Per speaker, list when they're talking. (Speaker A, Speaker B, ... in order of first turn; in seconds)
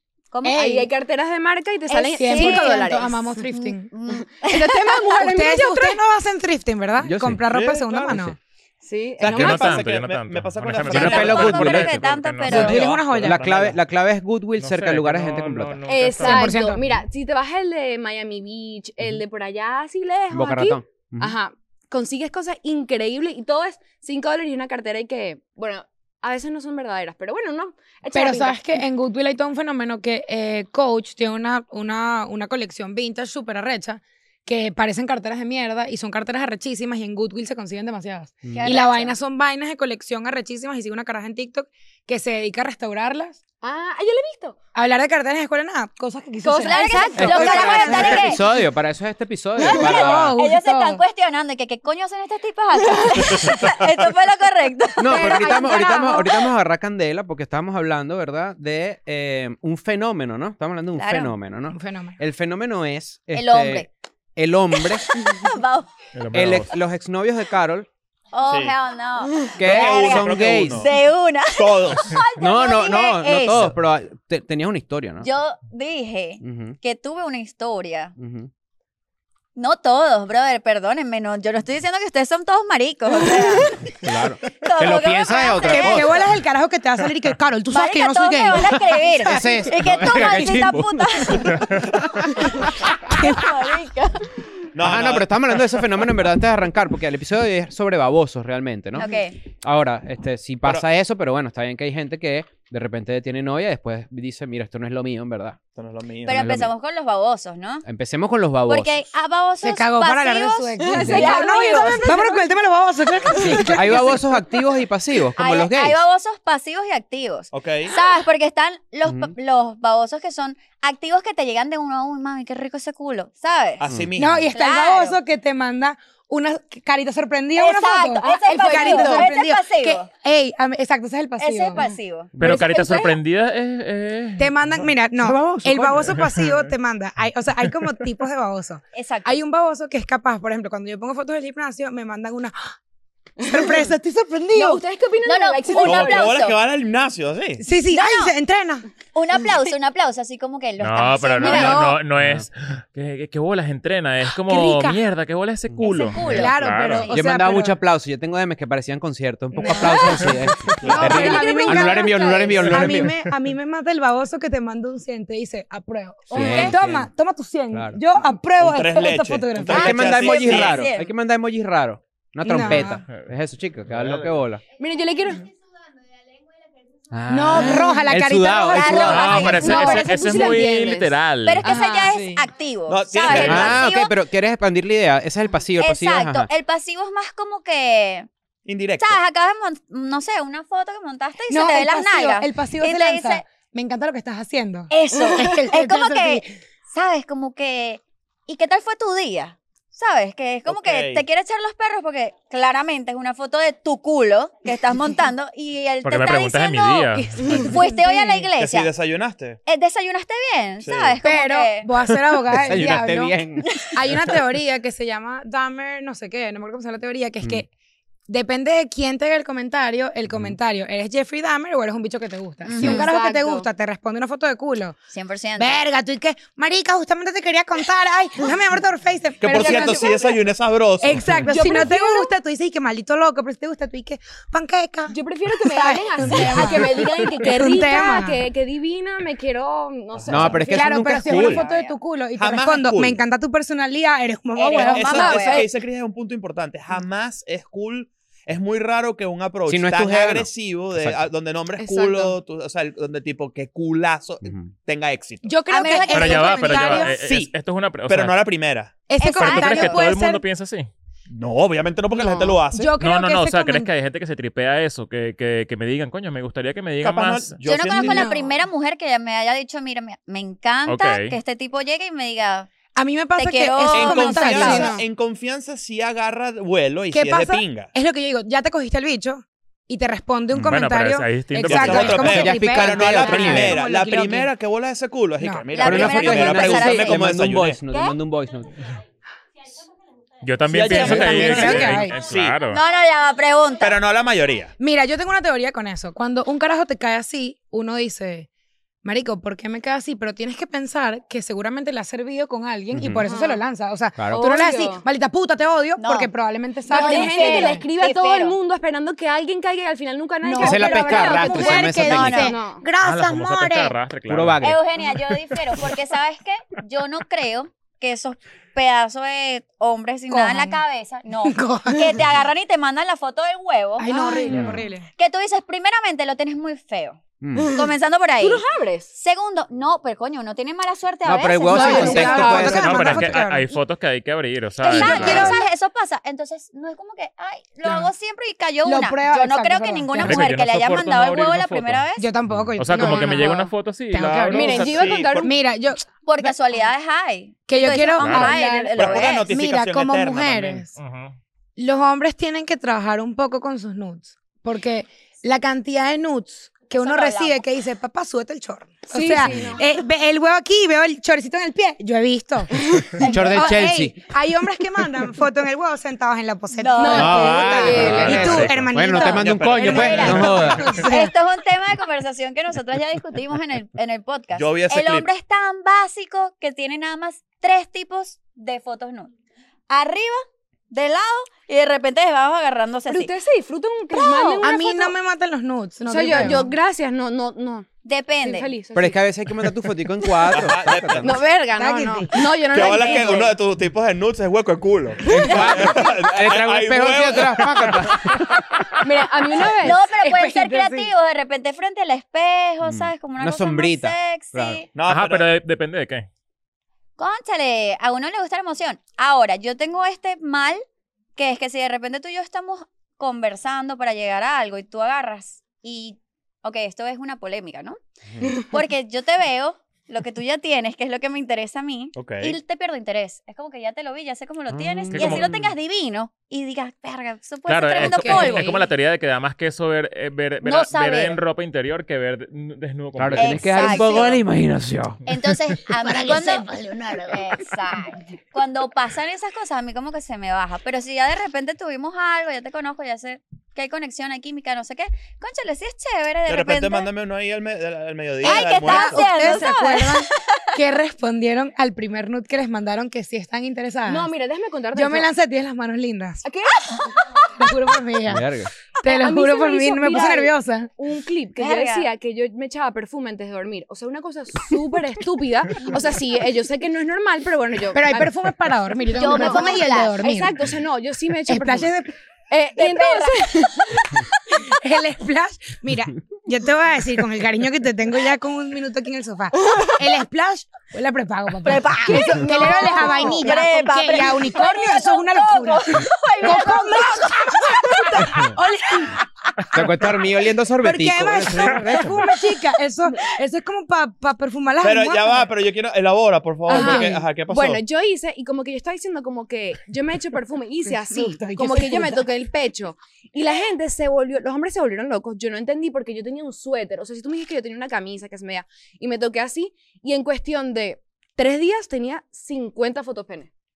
Speaker A: 0.3-0.7, 1.9-3.0, 3.5-5.0, 10.9-12.8, 38.5-39.1, 46.5-48.4, 49.7-56.3, 61.0-61.3, 63.3-63.9, 65.1-65.9, 68.3-73.7, 75.2-78.1, 79.5-83.9, 84.6-86.1, 87.7-91.7, 92.4-94.3, 98.9-99.4, 106.2-107.8, 108.7-112.0, 115.4-123.8, 124.5-125.2, 127.5-130.1, 131.4-133.1, 138.9-139.3, 145.2-146.6, 147.9-148.3, 149.1-152.0, 155.8-157.2, 166.4-166.7, 169.8-171.1, 178.7-180.0, 181.4-184.1, 185.8-188.3, 189.0-193.4, 194.9-208.9, 209.7-211.9, 222.6-223.1, 225.1-225.8, 241.4-242.0, 244.6-245.7, 255.7-256.9, 259.2-260.0, 267.6-272.7, 273.4-274.9, 285.7-287.2, 292.7-294.0, 306.0-306.3, 306.9-308.6, 311.9-312.5, 314.6-324.6, 325.1-328.6, 329.1-332.6, 334.8-342.3, 346.2-349.5, 357.0-357.6, 363.2-363.7, 366.8-367.6, 369.8-379.3, 379.9-383.3, 384.1-384.7, 388.0-388.7, 399.8-404.9, 407.2-410.8, 411.4-418.0, 418.6-428.8, 430.6-431.4, 433.4-434.4, 435.2-447.1, 448.4-450.6, 461.6-462.1, 469.1-470.1, 472.8-473.5, 481.6-488.1
Speaker B: 0.4-0.9, 2.1-3.9, 5.1-8.4, 12.5-13.4, 16.2-16.8, 28.1-43.4, 44.7-48.4, 49.6-51.0, 61.7-62.2, 85.6-89.6, 90.2-90.7, 93.1-93.5, 109.6-114.2, 124.2-131.8, 134.4-142.7, 143.4-144.8, 147.6-148.9, 154.4-155.0, 156.2-157.8, 159.5-169.9, 172.4-173.0, 177.3-180.3, 191.5-196.5, 207.4-208.5, 211.2-213.4, 213.9-217.7, 218.3-224.9, 225.6-230.4, 231.0-238.4, 240.6-245.3, 255.4-257.2, 259.1-260.4, 262.2-263.9, 267.9-268.6, 272.9-275.0, 277.1-284.5, 285.4-285.7, 291.0-292.2, 294.8-298.5, 299.0-307.9, 310.4-313.9, 320.3-320.8, 321.4-322.1, 324.0-325.1, 331.7-333.8, 334.9-335.6, 337.8-338.1, 338.8-340.4, 342.2-346.5, 347.7-350.9, 351.8-369.5, 370.1-371.3, 384.6-386.7, 391.7-392.6, 400.1-401.1, 428.0-428.5, 436.0-437.7, 448.5-454.3, 454.9-456.4, 457.6-460.9, 467.9-470.7, 471.5-472.1, 474.6-490.1, 490.8-495.5, 496.7-497.2, 500.9-502.3
Speaker C: 0.5-3.3, 4.2-6.0, 8.8-9.9, 15.8-28.8, 43.6-44.6, 46.5-48.0, 55.1-56.1, 110.8-112.4, 128.2-129.3, 143.4-143.8, 144.5-146.4, 151.4-151.9, 161.0-162.6, 166.3-166.8, 174.8-175.5, 179.2-182.4, 222.8-223.7, 229.5-230.3, 231.5-232.3, 235.1-241.4, 244.7-245.7, 251.8-252.3, 303.2-303.6, 304.3-305.0, 306.9-312.9, 324.1-324.6, 327.5-327.9, 328.4-329.1, 331.8-332.7, 334.9-335.6, 344.5-345.5, 348.3-349.1, 359.1-359.9, 366.9-368.6, 369.8-370.5, 383.1-385.1, 386.0-387.9, 388.4-389.2, 391.2-393.6, 399.0-400.0, 428.2-428.7, 454.0-455.3, 456.4-457.1, 459.0-471.9, 472.5-474.2, 479.7-480.0, 482.2-483.5, 496.7-513.5
Speaker D: 7.0-7.4, 8.1-8.3, 10.8-15.8, 20.3-21.4, 47.2-50.4, 55.0-65.1, 66.3-67.9, 69.6-70.9, 72.4-75.3, 76.4-76.8, 78.2-78.5, 84.0-86.3, 89.2-91.5, 94.8-105.6, 106.3-106.7, 107.8-109.0, 113.7-116.0, 119.0-119.3, 135.2-136.2, 152.2-152.5, 157.1-163.2, 166.3-167.1, 167.7-168.0, 169.7-174.6, 177.1-179.3, 183.3-186.5, 212.6-214.3, 220.3-220.6, 240.3-241.6, 249.7-251.3, 254.4-254.7, 282.3-283.8, 285.8-288.7, 302.9-303.2, 304.2-304.4, 310.6-312.5, 314.3-314.8, 324.5-324.8, 327.4-327.7, 331.2-333.4, 342.5-342.7, 363.2-364.2, 367.1-371.1, 386.3-386.6, 388.9-391.3, 395.3-398.6, 402.8-404.8, 424.7-425.7, 433.1-435.2, 458.3-458.7, 489.7-492.3
Speaker E: 7.4-8.2, 9.2-11.8, 12.5-13.8, 68.5-68.7, 69.6-70.9, 71.5-72.2, 94.7-95.8, 105.8-106.6, 117.5-117.9, 123.8-124.5, 145.8-147.6, 160.8-161.2, 168.6-170.8, 182.9-183.8, 188.7-189.2, 200.7-201.2, 208.6-209.6, 210.8-211.2, 229.4-231.5, 240.1-240.7, 242.3-243.2, 244.8-255.6, 257.0-257.5, 258.1-258.9, 261.3-262.9, 267.0-268.3, 273.9-277.9, 281.6-287.8, 290.7-292.6, 293.8-294.7, 344.3-345.5, 349.0-350.8, 369.2-370.8, 374.5-375.3, 390.4-391.4, 392.7-398.3, 404.9-405.5, 422.1-422.6, 446.5-449.2, 494.8-497.8
Speaker F: 9.2-12.9, 14.6-16.6, 66.1-66.7, 132.4-134.5, 135.7-136.6, 150.8-157.1, 173.9-174.3, 178.9-181.7, 206.0-207.8, 256.1-258.4, 259.4-260.9, 263.0-267.6, 270.9-271.3, 280.6-282.5, 290.4-292.8, 313.0-314.7, 332.6-335.5, 340.2-342.0, 342.7-345.0, 348.2-348.5, 350.9-351.4, 368.2-368.8, 405.1-406.3, 425.1-425.5, 427.7-434.1